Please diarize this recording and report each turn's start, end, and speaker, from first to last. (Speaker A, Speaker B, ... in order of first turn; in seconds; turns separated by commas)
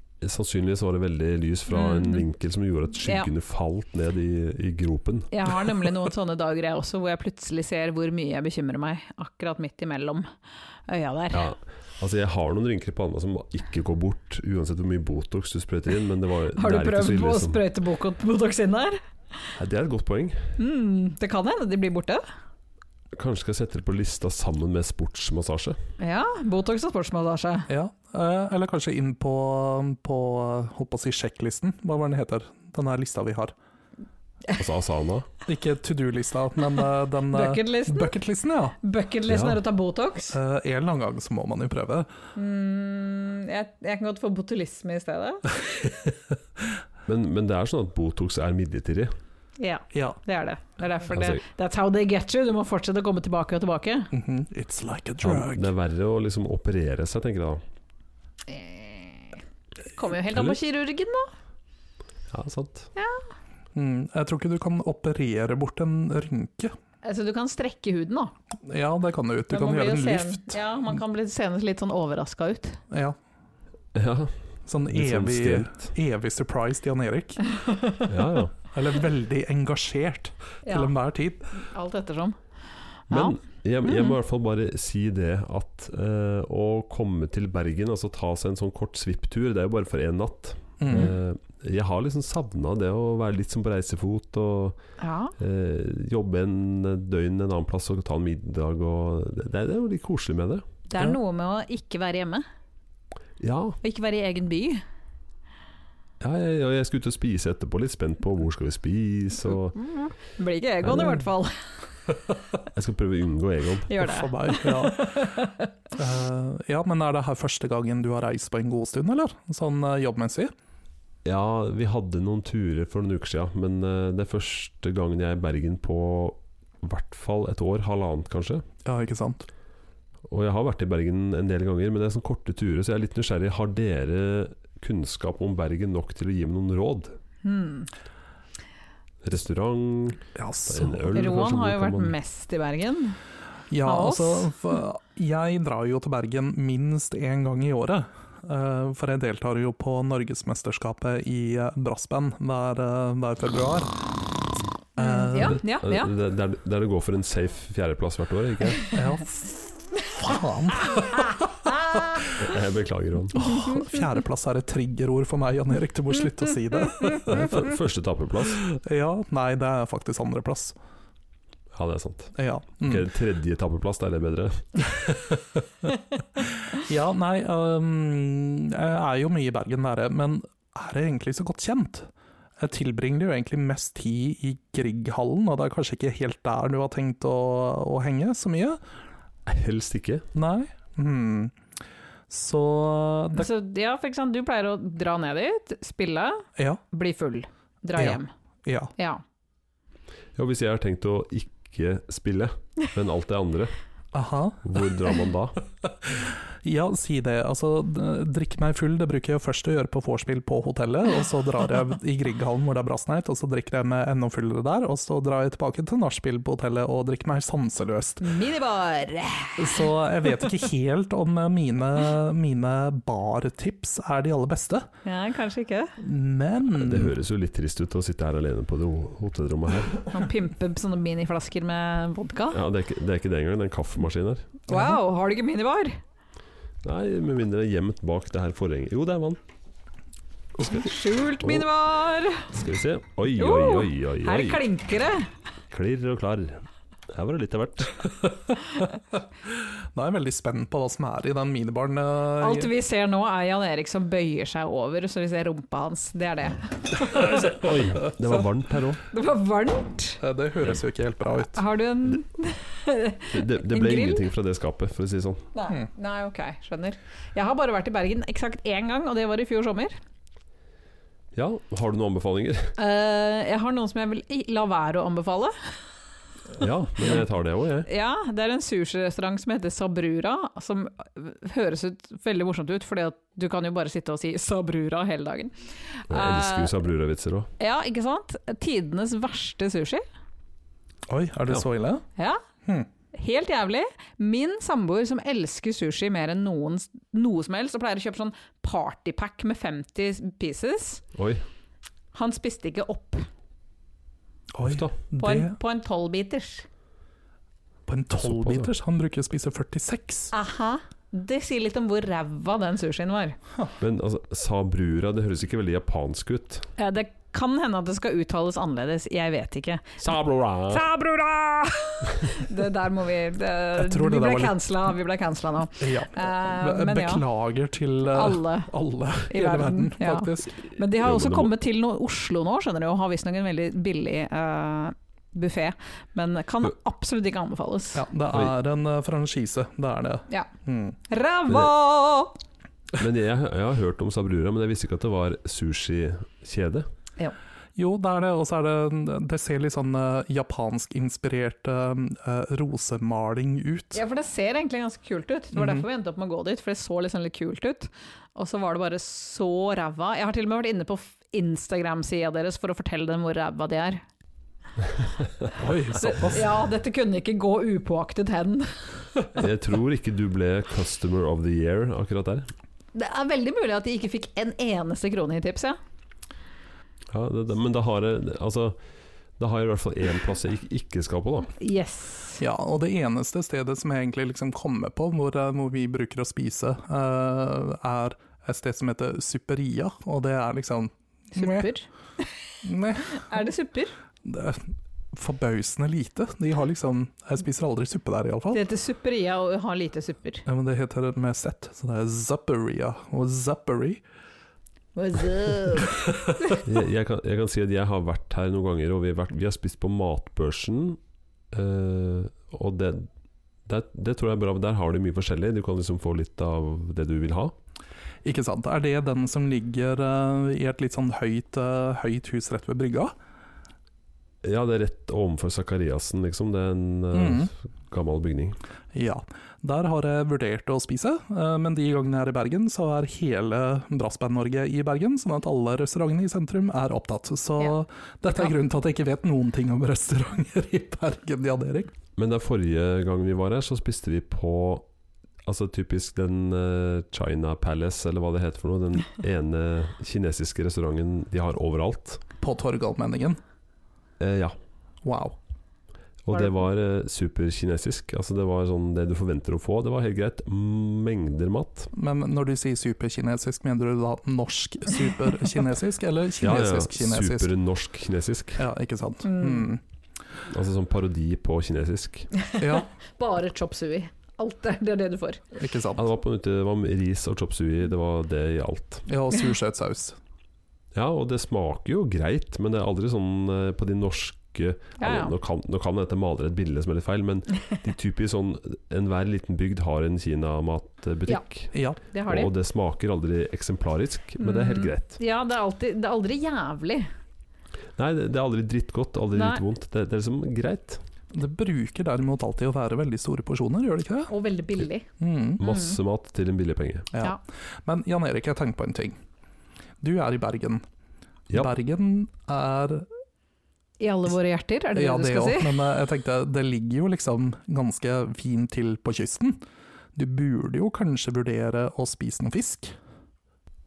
Speaker A: 0.2-5.3, Speaker B: 1.7-2.2, Speaker B: 3.0-3.3, Speaker B: 5.3-10.3, Speaker B: 10.9-11.4, Speaker A: 11.3-17.6, Speaker B: 16.6-19.0, Speaker A: 19.6-20.5, Speaker B: 20.6-22.2, Speaker A: 23.1-25.8, Speaker B: 26.0-27.7, Speaker C: 27.7-33.5, Speaker A: 34.5-35.3, Speaker C: 35.5-38.8, Speaker B: 37.3-38.1, Speaker B: 38.8-40.4, Speaker A: 39.3-39.6, Speaker C: 40.3-42.1, Speaker B: 42.3-45.9, Speaker A: 47.0-49.1, Speaker B: 49.6-54.1, Speaker C: 49.9-50.2, Speaker A: 51.1-51.4, Speaker C: 54.1-55.7, Speaker A: 55.2-57.6, Speaker B: 58.5-59.4, Speaker B: 59.9-61.3, Speaker A: 62.3-62.9, Speaker B: 63.0-63.2, Speaker C: 63.7-66.7, Speaker B: 67.0-68.3, Speaker C: 68.6-70.6, Speaker B: 69.5-72.8, Speaker C: 72.9-73.2, Speaker A: 73.9-74.3, Speaker C: 74.7-77.4, Speaker A: 74.9-75.9, Speaker B: 77.6-78.0, Speaker A: 78.1-78.5, Speaker C: 78.7-81.5, Speaker B: 80.6-80.9, Speaker B: 81.5-82.4, Speaker B: 83.1-84.2, Speaker A: 83.1-94.8, Speaker C: 90.8-91.1, Speaker B: 95.0-95.3, Speaker A: 95.4-100.6, Speaker B: 100.9-102.4, Speaker A: 103.4-103.8, Speaker B: 103.8-104.8, Speaker A: 106.2-109.8, Speaker B: 109.7-111.9, Speaker A: 112.7-114.0, Speaker B: 113.9-115.7, Speaker C: 114.0-115.4, Speaker C: 115.9-120.5, Speaker A: 121.2-128.6, Speaker C: 128.8-129.5, Speaker A: 130.3-137.2, Speaker B: 137.4-137.9, Speaker A: 139.2-142.1, Speaker C: 140.3-141.3, Speaker B: 141.1-143.2, Speaker C: 143.7-153.9, Speaker B: 143.8-144.5, Speaker C: 155.0-155.6, Speaker B: 155.0-156.1, Speaker A: 155.4-158.9, Speaker C: 158.9-161.5, Speaker B: 160.9-162.3, Speaker A: 162.3-163.4, Speaker C: 163.3-167.5, Speaker B: 163.4-163.8, Speaker A: 167.2-168.7, Speaker C: 168.7-170.7, Speaker A: 171.7-174.9, Speaker C: 172.3-173.1, Speaker C: 174.9-175.2, Speaker C: 176.4-188.8, Speaker A: 189.4-190.3, Speaker C: 190.3-191.5, Speaker C: 192.3-193.5, Speaker B: 193.3-198.3, Speaker C: 196.6-196.8, Speaker C: 197.9-198.9, Speaker B: 198.9-199.2, Speaker A: 200.3-203.8, Speaker C: 204.1-204.6, Speaker A: 204.6-205.6, Speaker C: 206.0-218.3, Speaker B: 218.2-219.9, Speaker C: 219.6-224.8, Speaker B: 225.0-225.9, Speaker C: 226.0-227.2, Speaker A: 226.8-230.1, Speaker B: 230.1-232.6, Speaker A: 232.5-234.6, Speaker B: 234.7-236.0, Speaker C: 234.7-235.0, Speaker A: 236.8-239.4, Speaker B: 240.6-242.5, Speaker A: 242.5-244.6, Speaker B: 243.3-245.3, Speaker A: 245.7-248.1, Speaker C: 249.5-252.7, Speaker B: 252.4-257.5, Speaker A: 257.1-259.0, Speaker B: 259.1-260.2, Speaker C: 260.2-261.6, Speaker B: 261.5-264.2, Speaker A: 263.3-265.5, Speaker B: 265.5-269.9, Speaker A: 271.3-272.8, Speaker B: 272.8-275.9, Speaker A: 276.6-277.9, Speaker B: 277.9-286.7, Speaker A: 286.1-287.5, Speaker B: 287.6-290.0, Speaker C: 291.1-292.0, Speaker B: 292.1-292.4, Speaker B: 293.1-301.0, Speaker A: 301.1-301.4, Speaker B: 302.1-303.3, Speaker C: 304.5-305.5, Speaker A: 304.6-304.9, Speaker B: 305.1-306.7, Speaker C: 307.9-310.3, Speaker A: 308.2-308.7, Speaker B: 310.3-313.4, Speaker A: 313.8-316.7, Speaker B: 316.8-320.0, Speaker A: 320.0-320.9, Speaker B: 320.7-327.2, Speaker C: 323.8-324.6, Speaker C: 325.8-330.5, Speaker B: 328.1-328.7, Speaker B: 329.3-338.1, Speaker A: 330.9-331.5, Speaker C: 337.9-341.0, Speaker B: 341.1-342.4, Speaker A: 343.0-346.9, Speaker C: 347.8-354.0, Speaker B: 353.9-364.0, Speaker C: 355.5-355.9, Speaker C: 365.6-366.6, Speaker B: 365.9-369.0, Speaker A: 369.3-372.5, Speaker B: 372.9-375.8, Speaker A: 377.1-378.8, Speaker A: 379.4-381.5, Speaker B: 381.6-382.4, Speaker C: 382.4-391.7, Speaker B: 391.3-392.3, Speaker C: 392.6-393.4, Speaker B: 393.0-393.9, Speaker C: 394.2-398.6, Speaker B: 398.5-400.4, Speaker C: 400.4-404.0, Speaker B: 404.9-406.6, Speaker A: 406.6-411.0, Speaker A: 411.5-413.1, Speaker A: 413.6-417.5, Speaker C: 418.2-423.1, Speaker A: 424.4-428.6, Speaker C: 427.1-427.5, Speaker C: 428.9-441.9, Speaker A: 442.2-444.8, Speaker A: 445.4-452.2, Speaker C: 452.4-453.4, Speaker A: 454.2-454.6, Speaker C: 455.0-455.4, Speaker A: 456.2-461.9, Speaker C: 461.9-467.5, Speaker A: 466.4-468.6, Speaker C: 468.6-469.8, Speaker B: 469.2-469.7, Speaker A: 470.4-472.3, Speaker B: 472.4-475.4, Speaker C: 472.6-472.9, Speaker C: 475.6-476.0, Speaker A: 476.0-479.1, Speaker C: 479.1-480.2, Speaker A: 480.9-495.2, Speaker B: 485.0-485.3, Speaker C: 491.7-492.0, Speaker B: 492.1-492.5, Speaker B: 494.4-497.1, Speaker A: 498.0-501.0, Speaker B: 499.3-499.6, Speaker C: 501.3-504.3, Speaker B: 504.3-505.1, Speaker C: 505.2-505.6, Speaker A: 505.6-507.1, Speaker B: 505.6-506.0, Speaker C: 507.1-509.1, Speaker C: 510.0-510.8, Speaker C: 511.5-513.1, Speaker B: 514.0-515.8, Speaker C: 514.9-519.6, Speaker C: 520.1-522.9